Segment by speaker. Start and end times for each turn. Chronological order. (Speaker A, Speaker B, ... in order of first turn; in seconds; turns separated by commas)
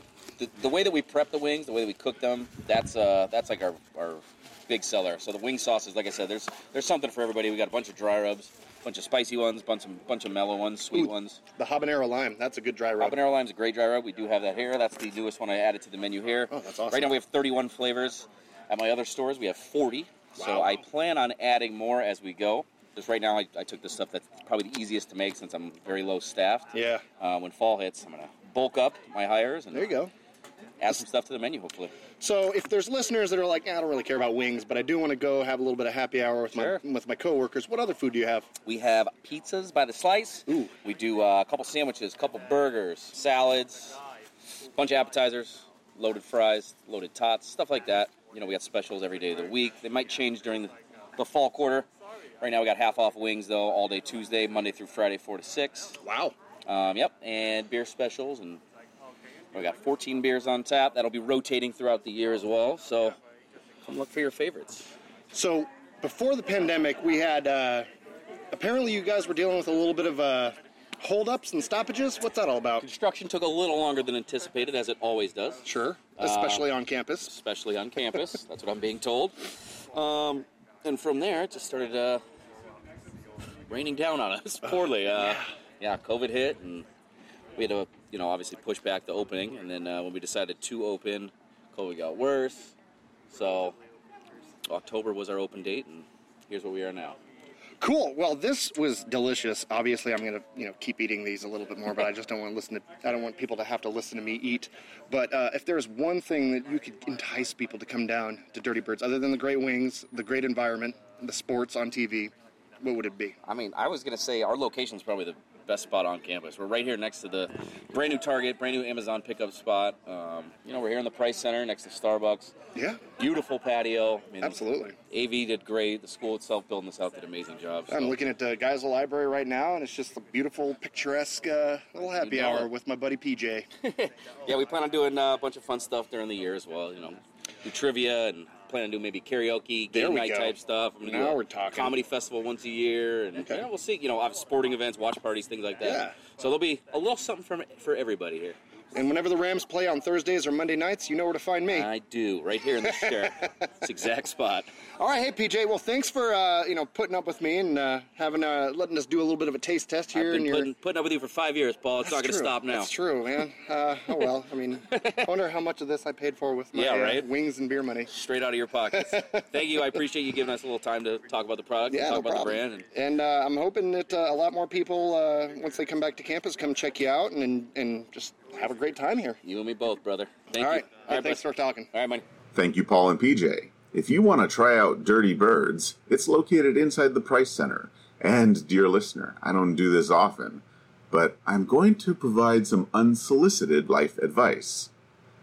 Speaker A: 0.4-11.4, Speaker B: 10.9-13.2, Speaker A: 13.0-30.0, Speaker B: 16.5-17.2, Speaker B: 20.4-20.7, Speaker B: 26.7-27.0, Speaker B: 29.7-30.1, Speaker A: 30.8-31.9, Speaker B: 32.2-38.5, Speaker A: 36.5-36.8, Speaker A: 38.6-44.0, Speaker B: 40.5-40.7, Speaker A: 44.7-51.9, Speaker A: 52.4-56.0, Speaker B: 56.0-56.4, Speaker A: 56.7-58.6, Speaker A: 59.5-63.2, Speaker A: 63.8-64.9, Speaker B: 65.3-67.9, Speaker B: 68.5-72.8, Speaker A: 72.8-75.7, Speaker B: 75.7-77.3, Speaker A: 76.2-76.7, Speaker A: 77.2-82.2, Speaker A: 83.7-86.9, Speaker A: 87.6-92.8, Speaker A: 93.3-93.8, Speaker A: 94.7-97.2, Speaker B: 97.8-113.4, Speaker A: 113.4-122.5, Speaker B: 122.8-123.0, Speaker A: 123.2-128.2, Speaker B: 124.4-125.0, Speaker B: 127.9-133.7, Speaker A: 132.2-132.7, Speaker A: 133.8-148.6, Speaker B: 139.9-142.0, Speaker B: 143.4-143.7, Speaker B: 145.8-146.2, Speaker B: 148.9-151.9, Speaker A: 151.7-154.7, Speaker B: 152.8-153.5, Speaker B: 155.0-160.7, Speaker A: 160.1-162.9, Speaker B: 162.0-168.1, Speaker A: 164.9-165.3, Speaker A: 166.7-167.3, Speaker A: 168.1-172.9, Speaker B: 169.0-169.2, Speaker B: 171.9-179.4, Speaker A: 179.4-182.2, Speaker B: 180.6-181.9, Speaker C: 182.6-194.9